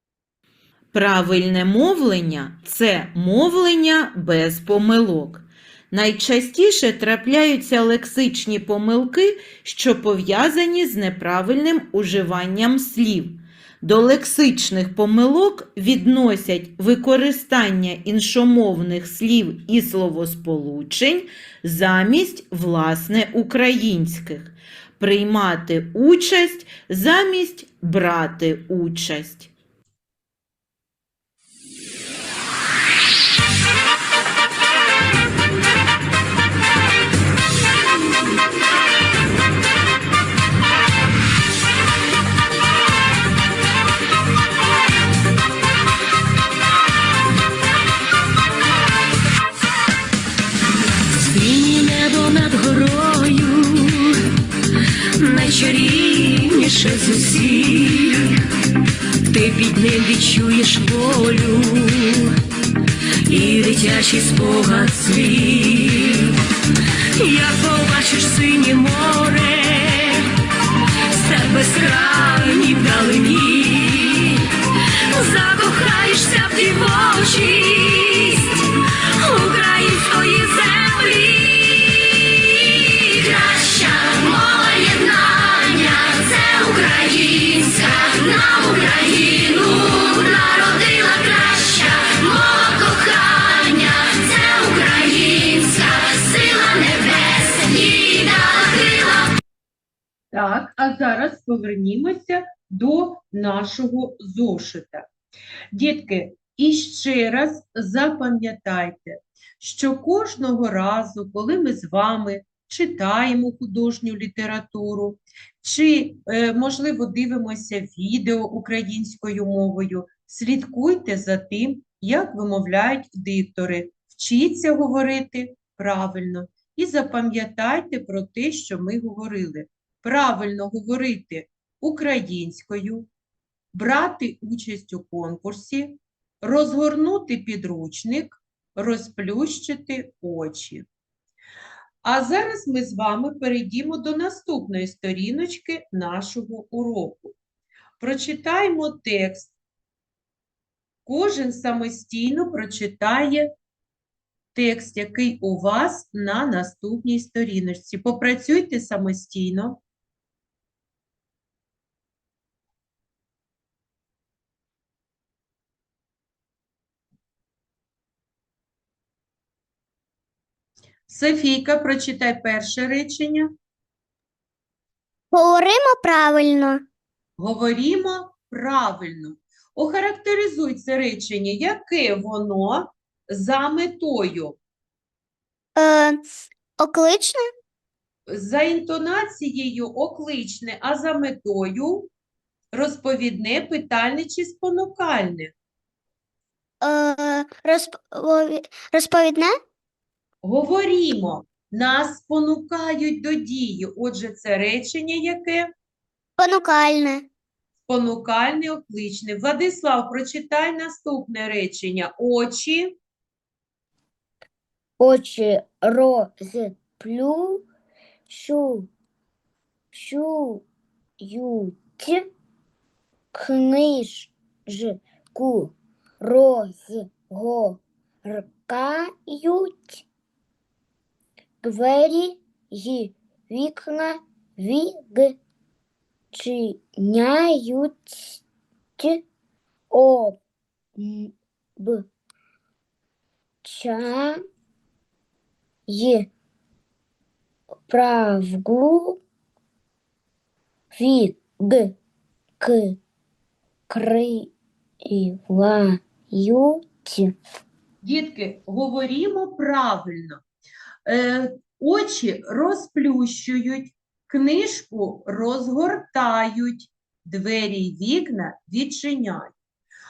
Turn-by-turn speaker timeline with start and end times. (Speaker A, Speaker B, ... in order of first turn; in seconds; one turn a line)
Speaker A: 0.9-29.5
Speaker B: 51.3-54.2
Speaker B: 55.2-58.4
Speaker B: 59.3-62.4
Speaker B: 63.3-66.4
Speaker B: 67.2-70.3
Speaker B: 71.1-74.5
Speaker B: 75.1-99.3
Speaker C: 100.3-105.1
Speaker C: 105.7-133.1
Speaker C: 133.7-140.9
Speaker C: 142.0-147.3
Speaker C: 148.0-149.5
Speaker C: 151.1-153.5
Speaker C: 154.6-159.8
Speaker C: 171.1-173.5
Speaker D: 175.3-176.8
Speaker C: 177.4-184.6
Speaker D: 185.8-187.4
Speaker C: 188.3-192.1
Speaker C: 192.7-195.5
Speaker D: 196.8-199.5
Speaker C: 200.4-205.7
Speaker D: 206.4-207.3
Speaker C: 207.9-213.0
Speaker E: 215.0-217.7
Speaker E: 218.3-218.9
Speaker E: 219.9-220.7
Speaker E: 221.2-222.2
Speaker E: 223.3-230.1
Speaker E: 231.6-235.4
Speaker E: 236.3-238.4
Speaker E: 239.0-239.2
Speaker E: 239.9-240.4
Speaker E: 241.0-242.1
Speaker E: 243.6-244.4
Speaker E: 245.9-246.3
Speaker E: 247.9-249.2
Speaker E: 250.9-252.0
Speaker E: 252.6-253.0
Speaker E: 253.9-254.5
Speaker E: 255.1-257.4
Speaker C: 258.0-260.4
Speaker C: 261.1-269.5